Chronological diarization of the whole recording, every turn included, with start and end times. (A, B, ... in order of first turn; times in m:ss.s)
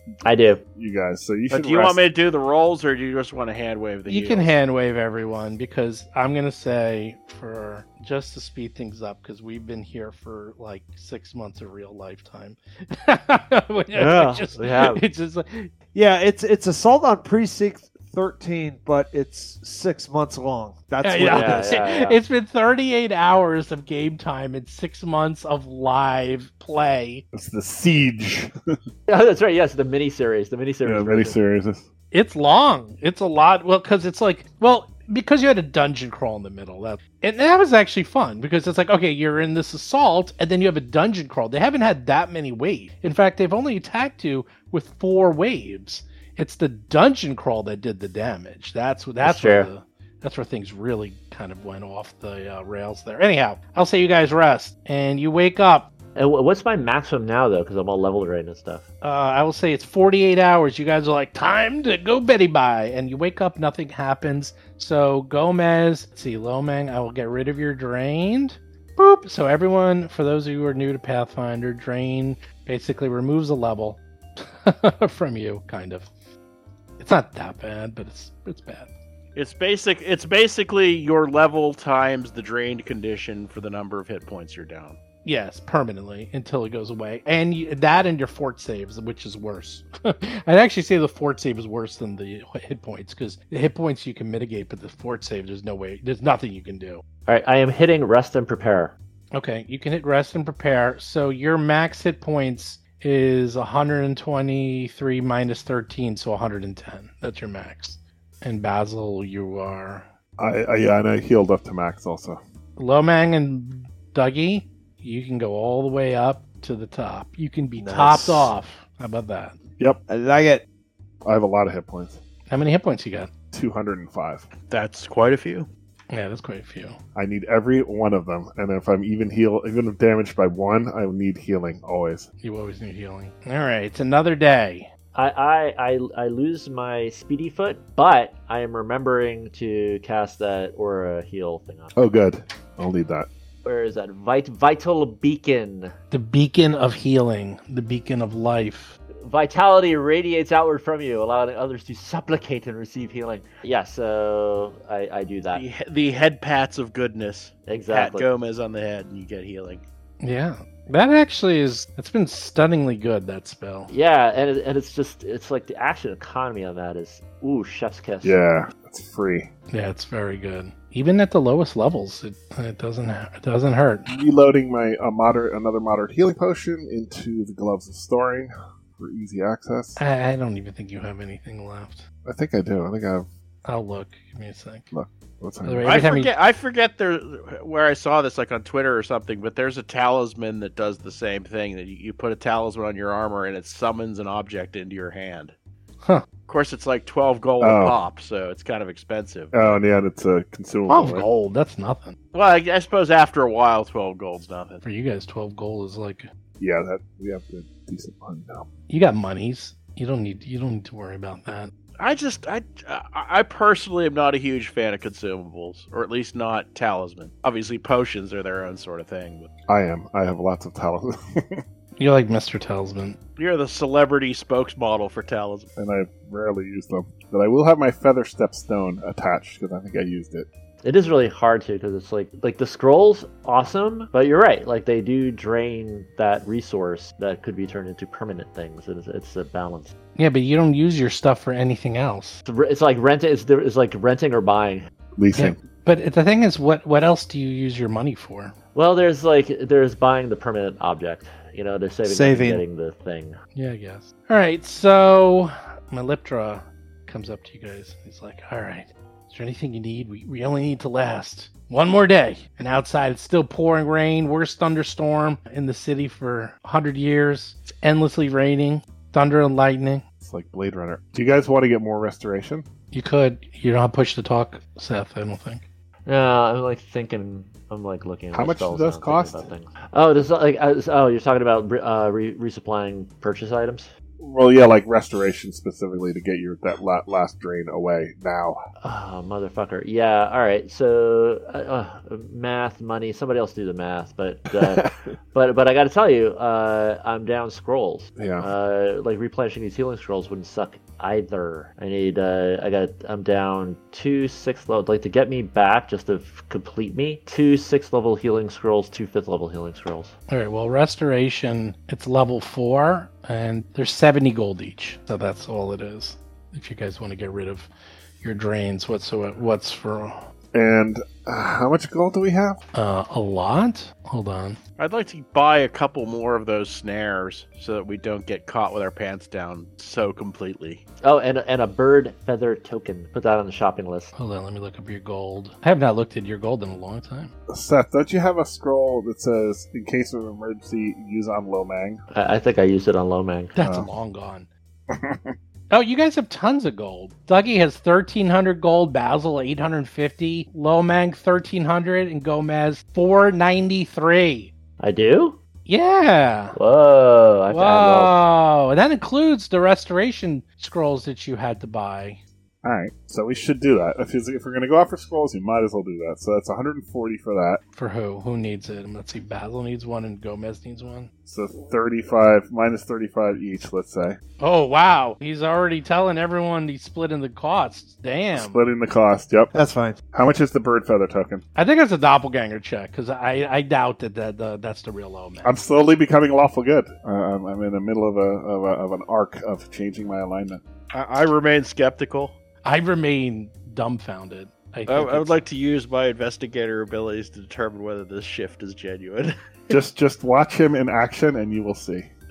0:00.2-0:00.6 A
0:00.8-0:02.0 B
0:01.5-0:04.5 C
0:04.1-0:15.7 D
0:13.9-0:15.0 A
0:15.9-0:21.8 E
0:21.0-0:27.2 D
0:21.2-0:22.2 A
0:27.3-0:28.5 B
0:29.1-0:31.4 A
0:30.8-0:31.8 B
0:32.1-0:55.9 D
0:49.2-0:49.7 A
0:56.1-0:58.8 A
0:59.0-1:16.1 D
1:17.0-1:18.9 D
1:19.3-1:25.0 C
1:25.2-1:37.0 D
1:37.3-1:38.9 A
1:39.3-1:50.0 D
1:50.4-1:52.4 B
1:52.8-1:59.5 D
1:57.8-1:58.5 E
2:00.1-2:00.6 E
2:01.2-2:02.2 B
2:02.5-2:03.3 D
2:03.5-2:04.5 B
2:04.7-2:05.7 C
2:06.1-2:07.0 D
2:07.1-2:12.3 B
2:12.4-2:14.9 D
2:15.1-2:21.9 A
2:21.9-2:23.3 B
2:23.6-2:25.9 A
2:26.1-2:28.9 D
2:29.2-2:35.6 A
2:35.5-2:39.8 C
2:37.6-2:38.3 A
2:40.2-2:43.9 D
2:43.9-2:48.4 A
2:48.2-2:49.5 B
2:49.7-2:54.1 D
2:54.1-3:00.0 B
3:00.0-3:02.0 D
3:02.2-3:03.3 B
3:03.6-3:04.9 D
3:04.9-3:05.9 B
3:05.6-3:06.3 D
3:05.8-3:15.5 C
3:16.5-3:19.8 C
3:17.6-3:18.0 B
3:19.5-3:21.2 B
3:20.9-3:22.2 D
3:22.3-3:24.8 C
3:24.8-3:26.3 D
3:26.6-3:28.7 B
3:28.9-3:31.7 D
3:32.0-3:39.5 C
3:39.7-3:41.6 B
3:42.0-3:43.2 D
3:43.4-3:45.7 C
3:45.8-3:50.5 B
3:50.8-3:59.9 A
4:00.2-4:02.4 D
4:02.4-4:04.9 A
4:05.2-4:05.6 B
4:05.3-4:08.5 D
4:08.7-4:13.4 A
4:12.0-4:12.6 E
4:13.5-4:30.0 D
4:30.2-4:32.6 B
4:32.9-4:35.6 D
4:36.0-4:43.9 A
4:38.3-4:39.5 B
4:44.2-4:48.6 B
4:48.8-5:10.1 A
4:54.6-4:55.1 B
4:58.2-4:58.5 B
5:10.3-5:17.7 D
5:18.2-5:20.2 D
5:20.5-5:22.6 B
5:22.7-5:24.6 D
5:24.8-5:30.8 C
5:31.0-5:34.1 A
5:34.2-5:37.3 D
5:37.5-5:42.0 B
5:42.1-5:43.5 A
5:43.5-5:44.5 D
5:43.6-5:43.9 B
5:44.9-5:45.3 B
5:45.7-5:54.5 D
5:54.8-5:55.4 A
5:55.6-5:56.6 D
5:56.5-5:58.2 A
5:57.5-6:02.2 D
6:02.6-6:07.6 B
6:07.7-6:11.1 D
6:11.2-6:14.2 B
6:14.4-6:18.6 D
6:18.4-6:19.5 B
6:19.5-6:20.0 E
6:20.1-6:21.4 B
6:21.6-6:25.5 D
6:25.4-6:30.6 B
6:30.9-6:32.3 C
6:32.6-6:35.4 D
6:34.9-6:39.4 C
6:39.7-6:42.1 B